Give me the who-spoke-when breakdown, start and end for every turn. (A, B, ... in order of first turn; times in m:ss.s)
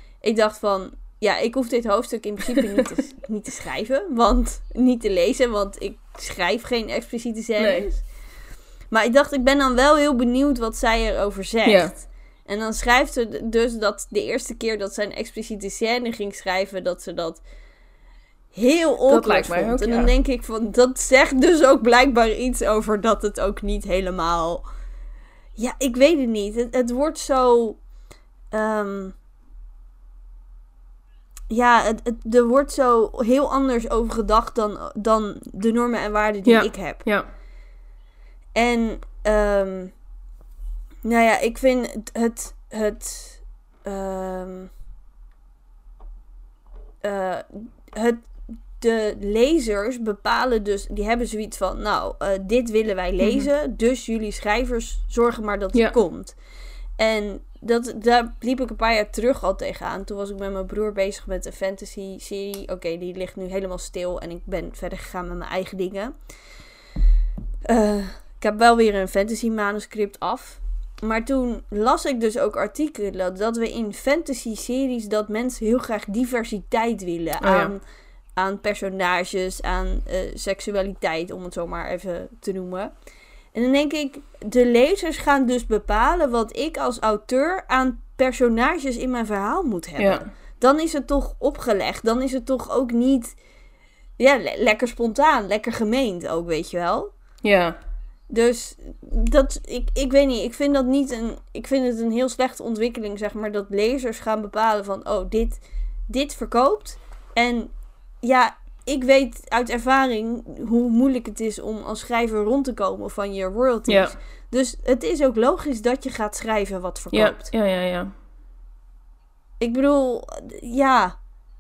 0:00.2-0:08.1 A
0:07.6-0:07.9 B
0:08.9-0:17.4 A
0:11.6-0:12.0 B
0:18.5-0:24.6 A
0:19.1-0:20.1 B
0:25.6-0:27.8 A
0:28.5-0:29.2 A
0:31.5-0:37.0 A
0:36.4-0:37.3 B
0:38.6-0:39.9 A
0:41.0-0:44.7 A
0:47.0-0:56.4 A
0:53.2-0:53.5 B
0:57.0-1:06.1 A
1:07.7-1:17.8 A
1:17.4-1:17.7 B
1:18.4-1:22.9 A
1:23.5-1:33.4 A
1:30.0-1:30.3 B
1:34.2-1:37.1 A
1:37.4-1:37.8 B
1:38.3-1:57.5 A
1:53.9-1:54.2 B
1:57.1-1:58.1 B
1:59.6-2:01.2 A